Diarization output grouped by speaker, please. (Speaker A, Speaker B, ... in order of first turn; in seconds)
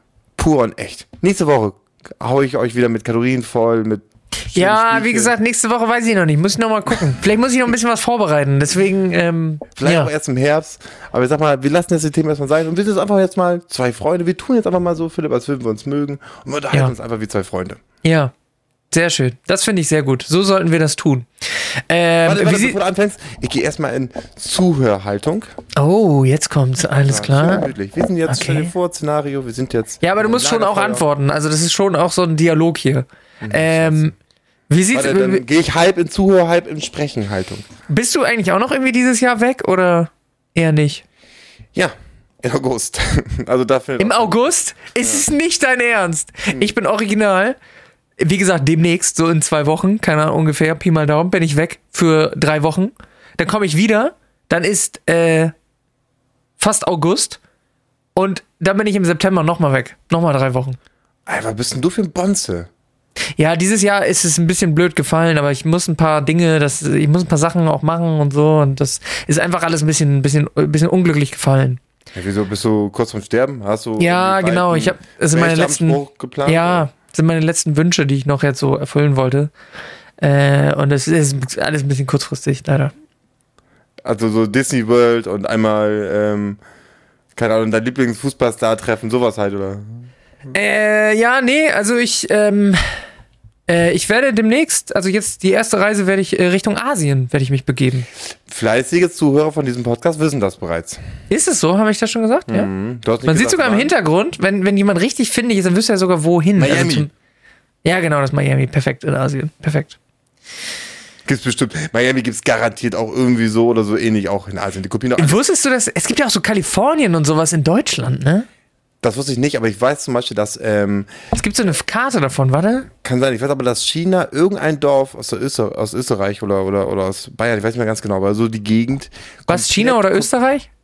Speaker A: 0.4-5.3, 9.8-17.8, 22.2-25.5, 27.1-31.0, 33.4-34.1, 34.9-37.6, 41.7-44.4, 61.3-62.7, 72.1-76.9, 84.0-86.6, 87.3-90.1, 98.5-101.0, 102.5-103.9, 106.6-107.1, 111.2-115.4, 119.0-121.1, 123.0-130.3
Speaker B: 4.5-10.1, 18.0-18.3, 18.9-22.8, 25.8-27.7, 28.3-28.7, 30.0-34.1, 34.7-35.4, 37.9-41.0, 44.0-47.5, 48.2-55.5, 56.6-57.4, 58.1-60.8, 63.4-71.8, 74.0-79.5, 80.2-82.9, 90.5-92.8, 93.7-98.1, 101.3-102.7, 103.2-107.1, 107.8-110.0, 115.2-118.5, 121.3-122.9, 129.5-130.7